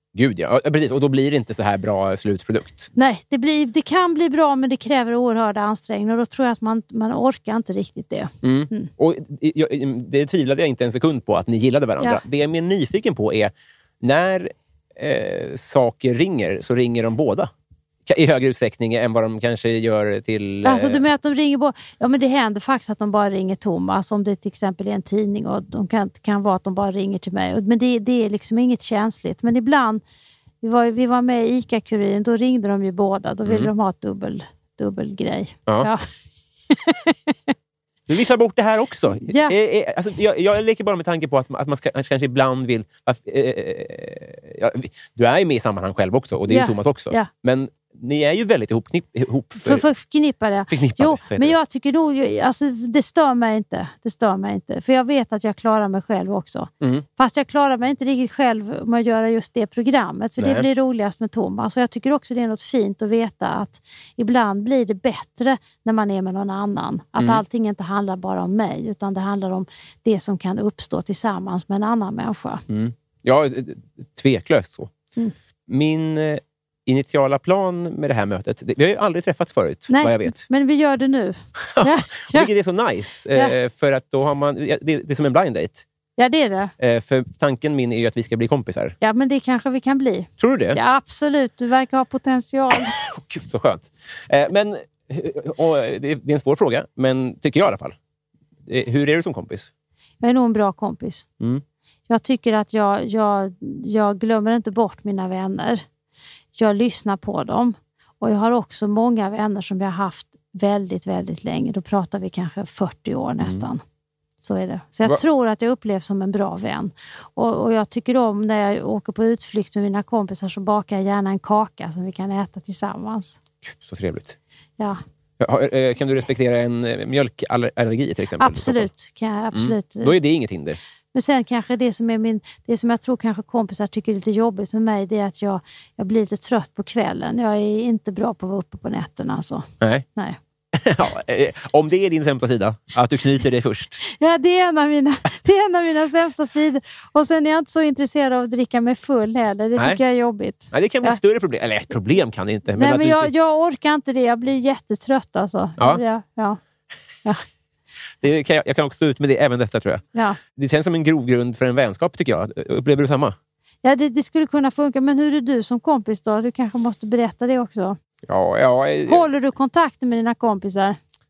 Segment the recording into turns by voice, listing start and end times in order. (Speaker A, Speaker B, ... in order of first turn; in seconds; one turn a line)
Speaker A: 0.1-2.9
Speaker B: 2.9-8.9
Speaker A: 8.4-17.5
Speaker A: 18.1-21.0
Speaker B: 20.6-30.0
Speaker B: 30.6-36.0
Speaker A: 33.4-33.7
Speaker B: 36.7-37.5
Speaker A: 38.1-49.8
Speaker B: 39.3-39.5
Speaker B: 46.5-47.3
Speaker B: 49.5-72.6
Speaker A: 50.7-51.5
Speaker A: 60.4-60.7
Speaker A: 67.2-67.4
Speaker A: 72.7-74.9
Speaker A: 75.7-80.4
Speaker B: 79.9-82.5
Speaker A: 81.7-85.8
Speaker B: 86.2-86.7
Speaker A: 86.8-89.0
Speaker B: 89.0-93.0
Speaker A: 90.4-90.8
Speaker A: 92.7-98.0
Speaker A: 98.7-99.7
Speaker B: 100.2-101.2
Speaker B: 102.1-105.8
Speaker B: 106.5-113.8
Speaker B: 114.4-123.4
Speaker A: 123.6-124.4
Speaker A: 125.4-128.9
Speaker B: 128.4-130.2
Speaker A: 129.5-130.8
Speaker B: 131.1-140.4
Speaker A: 139.8-140.1
Speaker A: 140.7-144.0
Speaker B: 144.0-151.2
Speaker A: 150.7-153.3
Speaker B: 152.7-156.6
Speaker A: 158.2-163.3
Speaker B: 160.1-160.4
Speaker B: 163.8-168.0
Speaker A: 168.2-169.2
Speaker B: 169.1-171.0